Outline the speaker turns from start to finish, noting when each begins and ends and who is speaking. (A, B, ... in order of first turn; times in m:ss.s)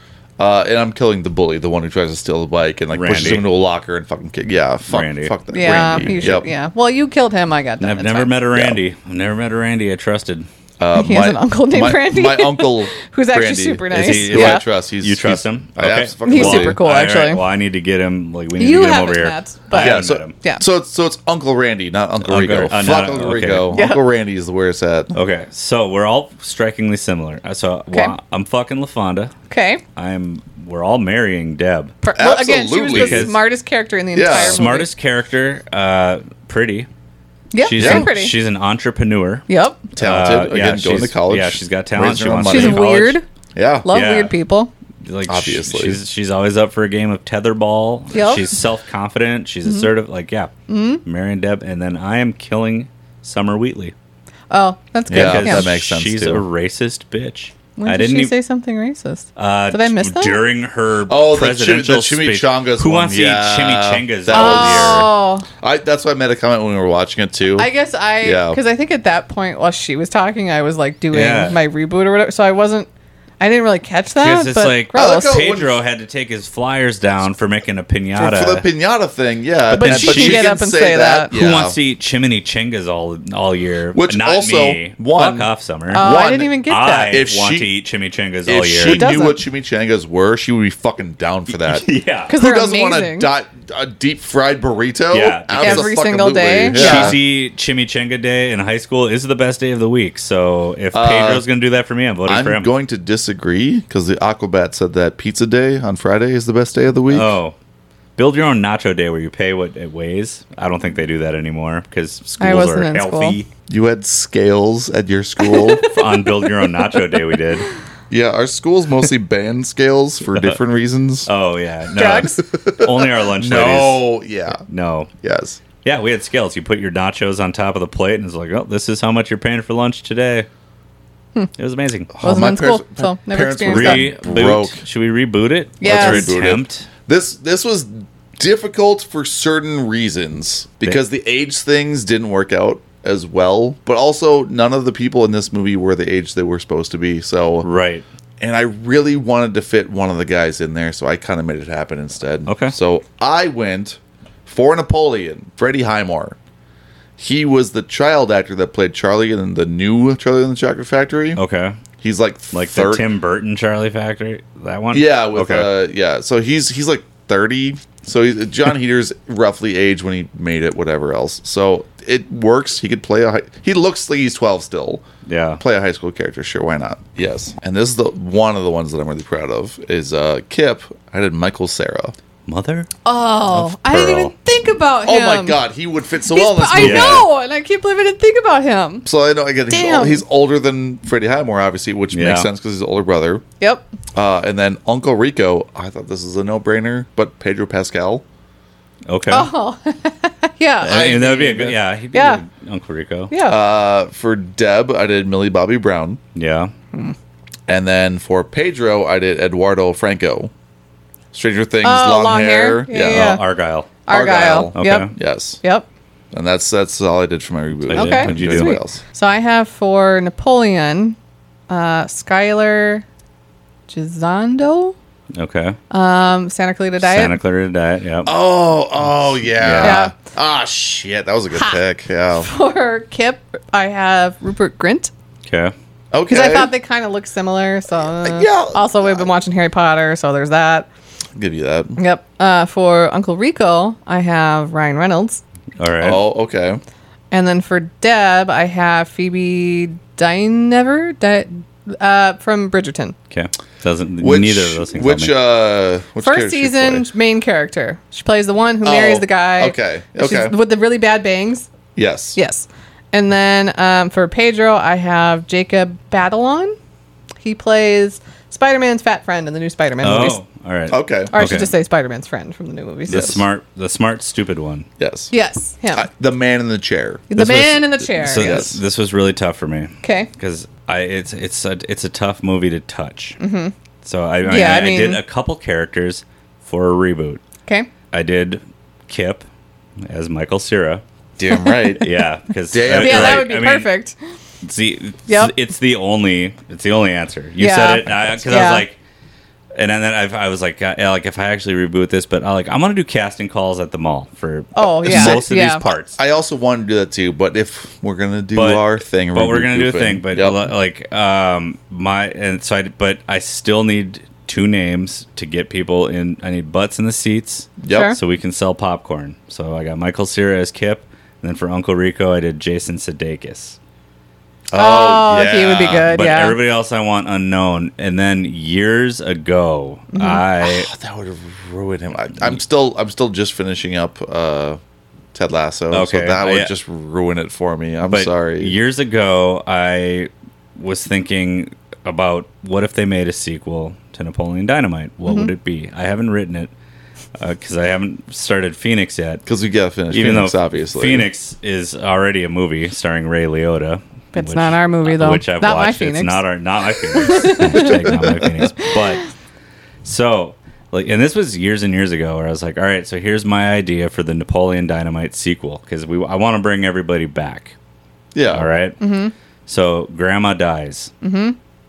0:00.4-0:06.5 A
0:02.9-0:03.4 B
0:04.8-0:05.3 B
0:05.5-0:08.3 C
0:07.8-0:10.5 B
0:08.5-0:08.8 A
0:10.8-0:16.8 A
0:11.0-0:14.6 C
0:13.9-0:20.3 B
0:16.2-0:17.4 C
0:18.6-0:20.6 C
0:19.7-0:25.1 A
0:22.2-0:23.7 B
0:23.7-0:24.0 C
0:25.1-0:29.3 B
0:29.5-0:29.8 C
0:30.0-0:31.9 B
0:32.0-0:34.9 C
0:32.1-0:33.3 A
0:32.9-0:33.4 B
0:34.1-0:34.6 A
0:34.3-0:36.9 B
0:37.5-0:38.3 C
0:37.6-0:43.2 B
0:37.8-0:38.1 A
0:39.5-0:39.8 C
0:40.0-0:42.9 A
0:42.4-0:43.2 C
0:43.5-0:43.9 A
0:43.8-0:44.7 C
0:43.9-0:44.3 B
0:45.0-0:50.5 B
0:45.3-0:46.0 A
0:48.1-0:48.5 C
0:50.7-0:51.0 C
0:51.0-0:53.9 B
0:54.5-0:55.7 C
0:55.1-0:58.3 B
0:55.1-0:56.4 A
0:57.8-1:00.4 C
0:59.4-1:05.1 B
1:01.1-1:05.0 A
1:04.3-1:05.4 C
1:05.6-1:07.7 A
1:07.6-1:12.9 C
1:08.2-1:08.6 A
1:11.1-1:11.6 B
1:13.4-1:15.4 C
1:14.2-1:18.6 B
1:14.9-1:15.8 A
1:18.2-1:21.8 A
1:19.7-1:21.3 C
1:19.7-1:20.5 B
1:21.3-1:26.1 B
1:23.9-1:27.7 A
1:25.9-1:27.2 C
1:26.6-1:29.2 B
1:28.4-1:37.2 A
1:28.8-1:29.4 C
1:31.6-1:32.3 B
1:32.3-1:33.3 C
1:35.1-1:35.9 B
1:35.6-1:37.2 C
1:36.7-1:42.7 B
1:40.9-1:41.4 A
1:42.3-1:47.3 A
1:47.1-1:47.5 B
1:48.2-1:53.5 B
1:52.4-1:53.4 C
1:53.7-1:55.9 A
1:55.4-1:56.0 C
1:55.7-1:57.7 B
1:58.1-2:01.3 A
2:01.3-2:05.1 B
2:01.9-2:02.4 C
2:02.4-2:04.6 A
2:05.2-2:05.6 A
2:05.8-2:10.5 B
2:11.6-2:12.1 B
2:12.1-2:14.8 A
2:12.2-2:14.1 C
2:13.7-2:16.9 B
2:15.8-2:16.3 C
2:15.8-2:27.7 A
2:27.6-2:28.0 B
2:28.4-2:36.4 A
2:32.5-2:32.7 B
2:37.2-2:41.4 A
2:41.4-2:41.8 B
2:42.0-2:43.0 A
2:42.5-2:45.7 B
2:44.9-2:55.0 A
2:55.2-2:55.6 B
2:55.6-3:02.1 A
3:02.5-3:02.9 B
3:03.0-3:05.6 C
3:03.5-3:04.3 B
3:05.0-3:07.2 A
3:06.3-3:09.0 C
3:06.8-3:07.3 B
3:09.0-3:13.4 A
3:09.7-3:10.2 C
3:12.1-3:12.5 B
3:13.6-3:13.9 C
3:14.1-3:18.2 A
3:19.1-3:19.5 B
3:19.3-3:21.0 C
3:20.8-3:23.3 B
3:20.8-3:21.8 A
3:22.1-3:22.4 C
3:23.3-3:23.6 C
3:23.5-3:26.2 A
3:26.3-3:26.7 B
3:27.7-3:30.5 A
3:31.3-3:33.4 A
3:31.8-3:33.4 C
3:33.0-3:33.9 B
3:34.0-3:35.9 C
3:34.1-3:35.6 A
3:34.7-3:35.1 B
3:36.3-3:39.0 A
3:37.8-3:38.8 B
3:37.9-3:41.2 C
3:41.7-3:43.0 C
3:43.9-3:44.9 C
3:45.3-3:45.8 B
3:45.9-3:47.4 C
3:47.0-3:48.3 B
3:48.2-3:52.5 A
3:49.5-3:50.0 B
3:49.8-3:50.1 C
3:52.3-3:55.1 C
3:55.4-3:55.7 B
3:56.1-3:56.7 A
3:56.3-4:00.9 C
3:58.2-3:59.3 A
4:01.4-4:02.0 A
4:02.0-4:05.4 C
4:05.8-4:06.2 B
4:06.0-4:06.8 A
4:07.3-4:13.1 C
4:13.3-4:15.3 B
4:14.2-4:17.1 A
4:16.2-4:21.7 C
4:18.8-4:20.5 A
4:22.0-4:22.4 A
4:22.4-4:26.8 C
4:27.4-4:30.4 C
4:30.0-4:31.7 B
4:30.9-4:31.3 A
4:31.3-4:33.3 C
4:33.1-4:33.4 A
4:33.1-4:34.9 B
4:35.0-4:35.3 A
4:35.3-4:36.1 C
4:35.9-4:37.2 A
4:37.3-4:38.7 C
4:37.3-4:43.4 B
4:38.2-4:38.8 A
4:40.0-4:40.3 C
4:43.4-4:43.7 C
4:44.0-4:47.4 B
4:44.4-4:45.2 C
4:48.1-4:49.4 B
4:50.0-4:51.0 B
4:51.4-4:52.1 A
4:51.5-4:52.0 C
4:52.0-4:53.9 B
4:52.7-4:53.5 A
4:52.9-4:54.2 C
4:54.6-4:59.0 B
4:55.3-4:55.5 C
4:57.6-4:58.8 C
4:59.7-5:06.1 B
5:04.7-5:05.8 C
5:05.0-5:10.7 A
5:08.6-5:23.8 B
5:17.8-5:18.1 A
5:17.9-5:18.2 C
5:24.7-5:26.1 A
5:24.7-5:26.6 C
5:26.0-5:30.9 B
5:30.1-5:30.4 C
5:30.6-5:34.8 A
5:35.3-5:38.7 A
5:35.9-5:36.7 B
5:38.1-5:46.7 B
5:47.4-5:49.4 B
5:49.4-5:51.3 A
5:50.1-5:59.2 B
5:54.3-5:56.4 C
5:57.1-5:58.9 C
6:00.0-6:07.7 B
6:08.3-6:08.7 A
6:08.5-6:09.0 B
6:09.0-6:09.3 C
6:09.7-6:11.1 B
6:11.2-6:11.6 C